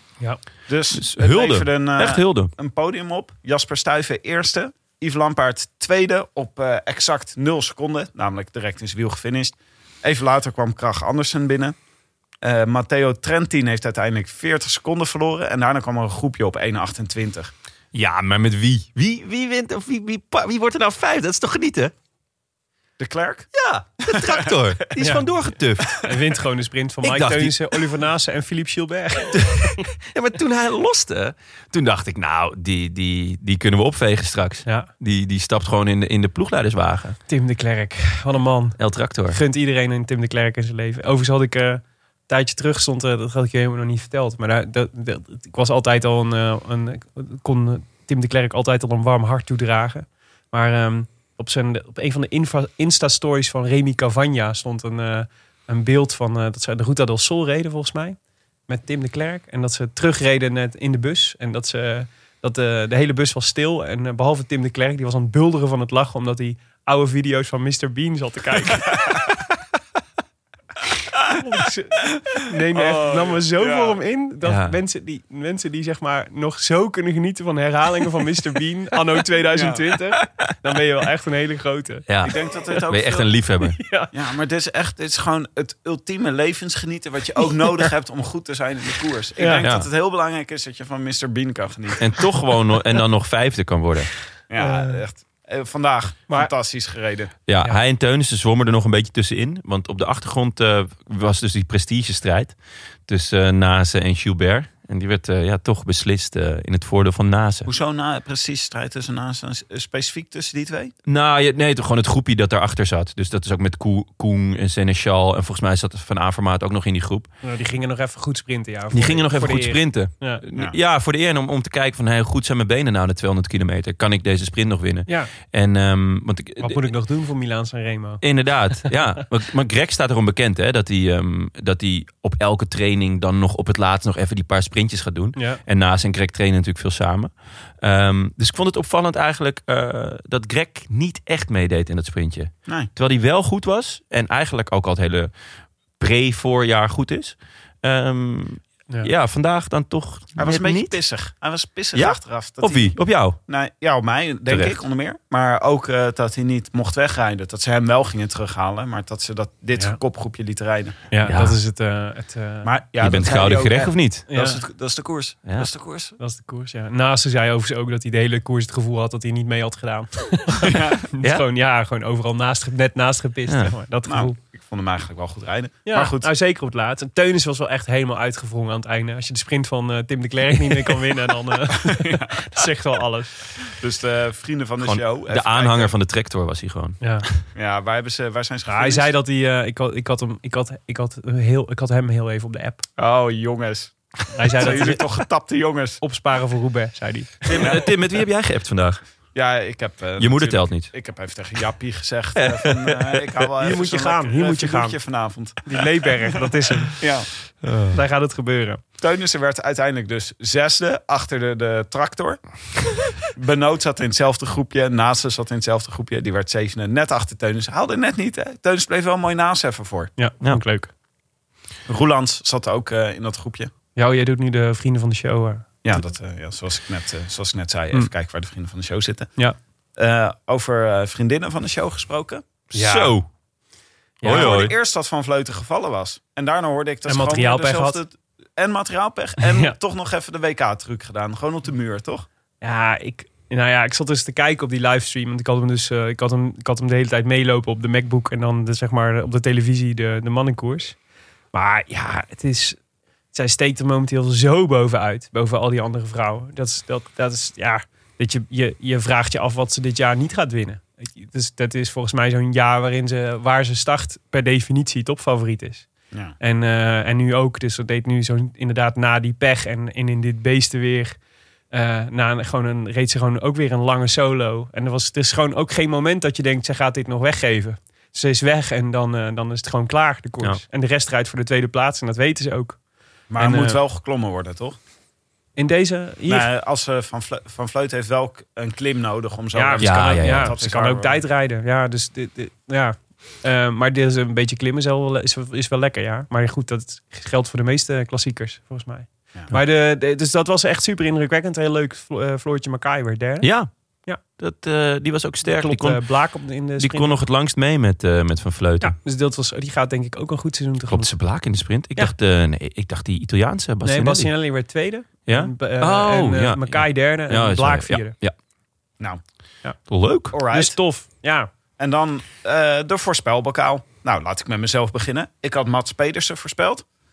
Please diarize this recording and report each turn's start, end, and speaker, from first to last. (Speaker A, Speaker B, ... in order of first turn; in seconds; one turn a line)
Speaker A: 0.7-11.8
Speaker B: 0.9-2.5
Speaker A: 12.4-17.5
Speaker B: 17.9-21.9
Speaker A: 23.0-23.5
Speaker B: 23.5-26.1
Speaker A: 24.1-24.5
Speaker C: 25.0-25.2
Speaker C: 26.0-29.4
Speaker B: 27.0-27.7
Speaker B: 29.3-37.2
Speaker C: 37.3-38.8
Speaker B: 38.8-39.4
Speaker C: 39.3-58.2
Speaker C: 58.7-69.1
Speaker C: 71.3-82.1
Speaker A: 72.7-74.0
Speaker B: 74.4-74.8
Speaker A: 79.5-80.0
Speaker B: 82.1-82.3
Speaker A: 82.2-83.3
Speaker B: 82.9-83.8
Speaker C: 83.7-84.1
Speaker A: 84.1-92.2
Speaker C: 89.4-89.7
Speaker B: 92.0-94.1
Speaker A: 94.5-97.3
Speaker C: 94.6-95.0
Speaker B: 97.5-102.5
Speaker B: 103.1-107.7
Speaker A: 107.7-110.9
Speaker B: 111.1-117.3
Speaker C: 117.4-120.4
Speaker B: 118.9-126.9
Speaker C: 126.6-128.2
Speaker B: 128.2-145.3
Speaker C: 135.4-135.6
Speaker B: 146.0-151.0
Speaker A: 150.4-161.0
Speaker B: 151.9-153.4
Speaker B: 154.5-154.8
Speaker C: 161.1-162.7
Speaker B: 161.3-161.6
Speaker A: 162.6-166.2
Speaker B: 163.0-164.3
Speaker C: 164.3-164.6
Speaker C: 166.2-174.4
Speaker A: 170.6-171.0
Speaker B: 173.5-173.7
Speaker A: 174.1-176.3
Speaker C: 175.9-183.4
Speaker A: 181.7-182.7
Speaker A: 183.6-185.9
Speaker B: 184.8-187.4
Speaker C: 187.0-187.3
Speaker A: 187.6-189.1
Speaker C: 188.7-192.8
Speaker A: 193.0-193.9
Speaker C: 194.3-195.0
Speaker A: 194.6-196.0
Speaker C: 196.0-197.7
Speaker B: 197.5-199.0
Speaker A: 197.5-197.9
Speaker A: 199.3-207.3
Speaker B: 200.2-200.9
Speaker B: 202.4-203.4
Speaker C: 203.6-205.0
Speaker C: 205.7-207.0
Speaker B: 207.6-208.0
Speaker C: 207.9-208.8
Speaker A: 209.0-212.4
Speaker A: 213.3-220.1
Speaker C: 220.2-220.9
Speaker A: 221.9-223.7
Speaker C: 224.0-226.0
Speaker A: 225.8-229.3
Speaker A: 230.0-232.4
Speaker B: 232.7-233.3
Speaker C: 232.7-233.2
Speaker C: 234.2-234.6
Speaker B: 234.2-234.7
Speaker A: 234.2-242.3
Speaker C: 237.1-238.0
Speaker C: 239.4-239.8
Speaker C: 242.6-251.0
Speaker C: 251.5-252.8
Speaker C: 253.3-265.9
Speaker C: 266.4-271.2
Speaker C: 271.7-282.8
Speaker A: 283.3-284.8
Speaker C: 283.4-283.8
Speaker C: 285.6-286.5
Speaker A: 286.3-291.2
Speaker C: 289.5-303.5
Speaker B: 289.8-290.6
Speaker B: 303.4-303.7
Speaker B: 304.4-306.0
Speaker C: 305.4-307.1
Speaker B: 306.8-308.9
Speaker C: 308.8-311.1
Speaker B: 310.9-314.3
Speaker C: 313.8-318.1
Speaker B: 315.3-318.3
Speaker B: 319.9-320.4
Speaker A: 320.3-320.8
Speaker C: 320.5-321.5
Speaker A: 321.8-326.9